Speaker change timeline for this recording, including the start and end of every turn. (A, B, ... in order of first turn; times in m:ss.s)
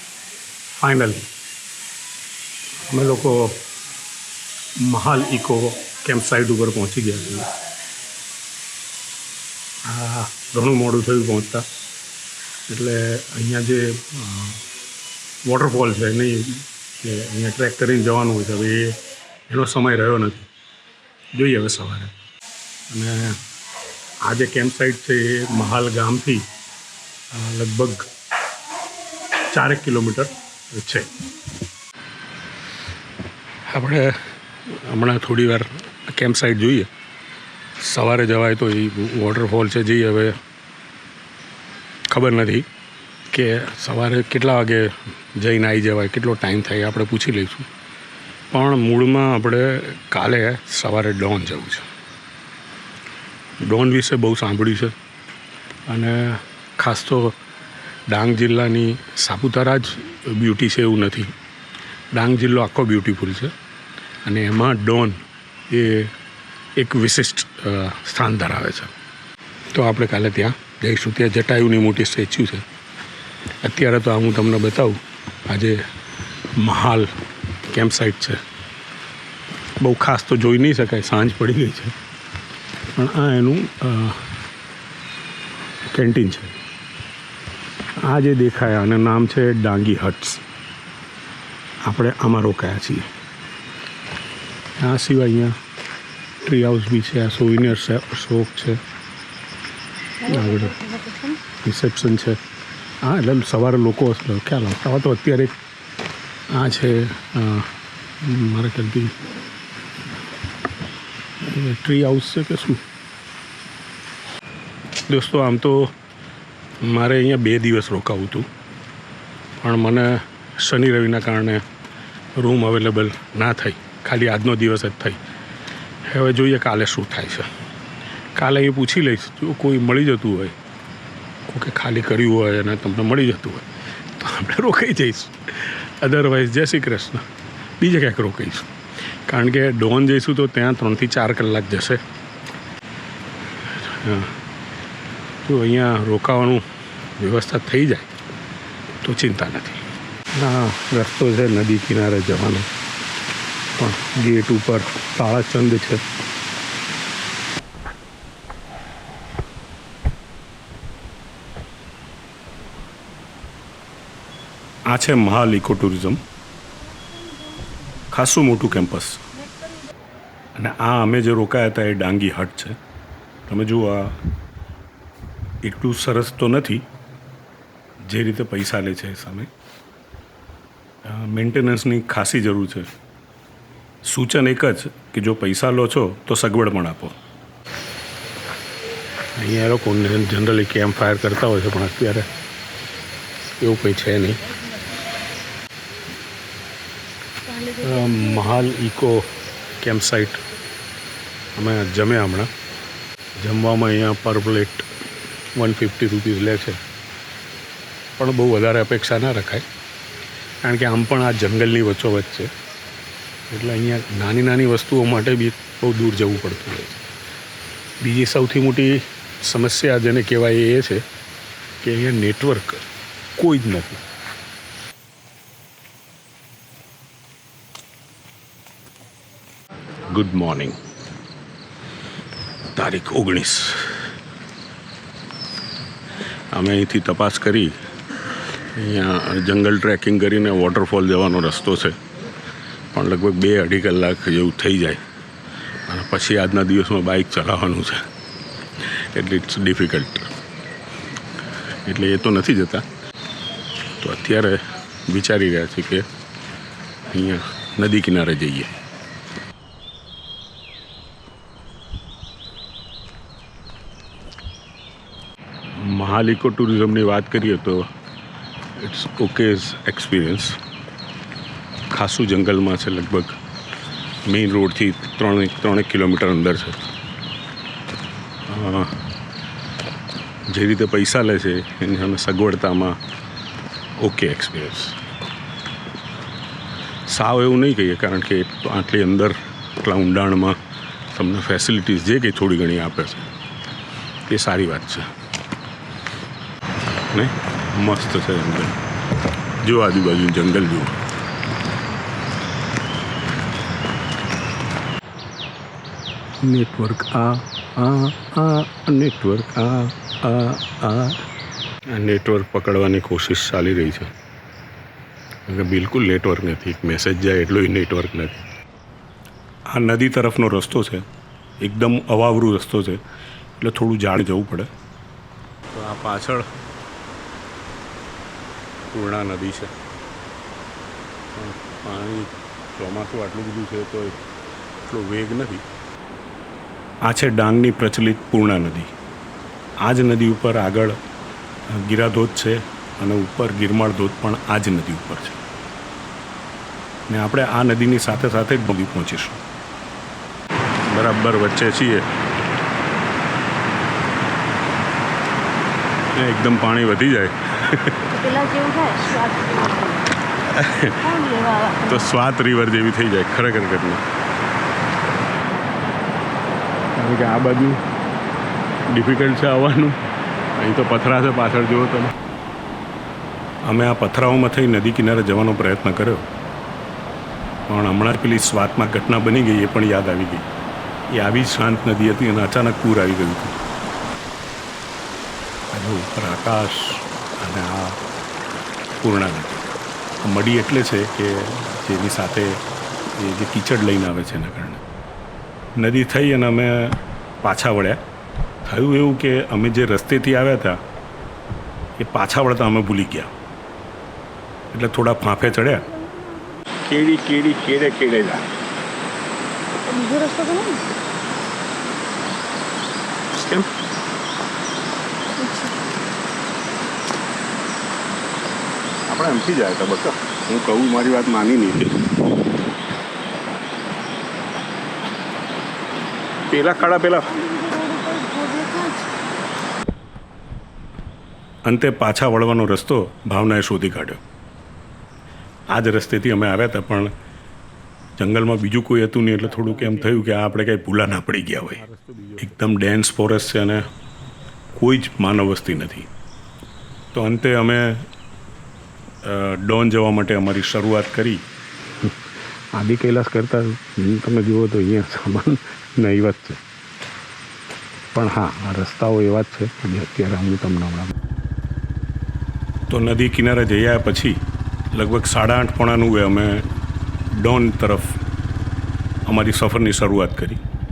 0:00.7-0:01.3 A
0:02.9-0:03.6 A
0:04.8-0:07.4 A
0:09.8-0:11.6 A
0:12.7-0:14.6 A
0:15.4-0:20.5 A
0:21.3-0:22.1 A
0:22.9-0:23.4 A
0:24.2-0:26.5 A
0:27.3-0:28.1 A
0:29.4-0:31.1 A
0:33.7-0:36.9 A
0:37.8-0:40.4 A
0:42.1-0:42.6 A
0:43.3-0:47.7 A
0:48.5-0:51.9 A
0:53.6-0:55.0 A
0:55.9-0:57.4 A
0:58.1-1:01.3 A
1:02.1-1:03.5 A
1:04.2-1:06.1 A
1:06.8-1:08.9 A
1:09.7-1:12.6 A
1:13.6-1:15.8 A
1:16.5-1:17.1 A
1:17.7-1:18.4 A
1:19.8-1:21.9 A
1:22.9-1:24.3 A
1:25.9-1:26.5 A
1:28.0-1:30.4 A
1:31.8-1:33.1 A
1:34.8-1:35.6 A
1:36.4-1:38.8 A
1:40.2-1:41.4 B
1:40.2-1:40.7 A
1:41.6-1:42.4 A
1:43.0-1:45.5 A
1:46.5-1:49.2 A
1:51.4-1:52.8 A
1:55.1-1:55.9 A
1:56.8-1:58.5 A
1:59.6-2:01.6 A
2:02.4-2:05.2 A
2:06.0-2:07.5 A
2:08.3-2:10.5 A
2:11.5-2:17.3 A
2:17.8-2:18.7 A
2:19.2-2:22.0 A
2:23.6-2:24.4 A
2:25.4-2:26.6 A
2:27.2-2:28.1 A
2:29.0-2:32.7 A
2:33.8-2:36.0 A
2:44.9-2:46.2 A
2:46.7-2:48.1 B
2:48.1-2:49.2 A
2:49.4-2:49.8 B
2:50.5-2:52.8 A
2:53.5-2:54.2 A
2:55.6-2:56.8 A
2:58.0-2:59.5 A
3:01.0-3:02.9 A
3:04.0-3:07.2 A
3:09.4-3:12.3 A
3:13.6-3:14.4 A
3:17.4-3:18.6 B
3:17.8-3:19.3 A
3:19.8-3:20.4 A
3:21.6-3:22.5 A
3:23.4-3:24.9 A
3:25.6-3:26.8 A
3:28.2-3:29.6 A
3:30.6-3:32.5 A
3:33.5-3:37.0 A
3:38.0-3:41.0 A
3:41.8-3:42.8 A
3:43.4-3:44.0 A
3:50.1-3:50.8 A
3:52.8-3:54.1 A
3:56.5-3:57.8 A
3:58.7-4:02.0 A
4:02.9-4:05.0 A
4:05.9-4:08.1 A
4:08.9-4:10.3 A
4:11.8-4:12.8 A
4:14.0-4:16.0 A
4:17.1-4:18.7 A
4:25.8-4:27.9 A
4:28.8-4:30.6 A
4:31.9-4:33.4 A
4:34.2-4:36.8 A
4:38.5-4:39.0 A
4:40.5-4:43.0 A
4:44.0-4:45.0 A
4:47.1-4:50.6 A
4:51.1-4:53.3 A
4:54.3-4:55.1 A
4:57.1-4:58.8 A
4:59.6-5:01.0 A
5:06.4-5:11.2 A
5:11.9-5:14.1 A
5:15.5-5:18.4 A
5:19.7-5:21.0 A
5:21.6-5:23.0 A
5:23.6-5:24.7 A
5:25.7-5:26.5 A
5:28.9-5:29.7 A
5:31.3-5:34.2 A
5:34.9-5:35.6 A
5:37.0-5:38.9 A
5:39.8-5:41.0 A
5:41.7-5:45.4 A
5:47.1-5:49.4 A
5:50.9-5:52.1 A
5:56.1-5:58.1 A
5:58.1-6:00.1 B
6:00.5-6:01.0 A
6:00.9-6:02.1 B
6:01.8-6:04.0 A
6:07.0-6:07.8 A
6:08.9-6:10.0 A
6:10.6-6:12.1 A
6:13.6-6:16.2 A
6:17.7-6:20.5 A
6:21.1-6:23.6 A
6:25.7-6:28.0 A
6:29.0-6:29.6 A
6:30.2-6:32.6 A
6:33.2-6:34.8 A
6:35.8-6:38.0 A
6:38.6-6:40.8 A
6:42.0-6:43.3 A
6:44.7-6:45.9 A
6:45.7-6:46.7 B
6:46.8-6:48.5 A
6:49.8-6:50.8 B
6:53.4-6:53.7 A
6:55.4-6:55.8 B
6:59.1-7:02.2 A
7:06.5-7:07.3 A
7:06.7-7:09.2 B
7:11.6-7:14.2 A
7:15.7-7:17.1 A
7:18.2-7:23.8 A
7:24.8-7:26.1 A
7:27.1-7:28.1 A
7:29.2-7:31.4 A
7:32.8-7:36.6 A
7:38.1-7:41.1 A
7:42.9-7:44.4 A
7:44.9-7:46.7 A
7:47.3-7:48.2 A
7:49.2-7:50.6 A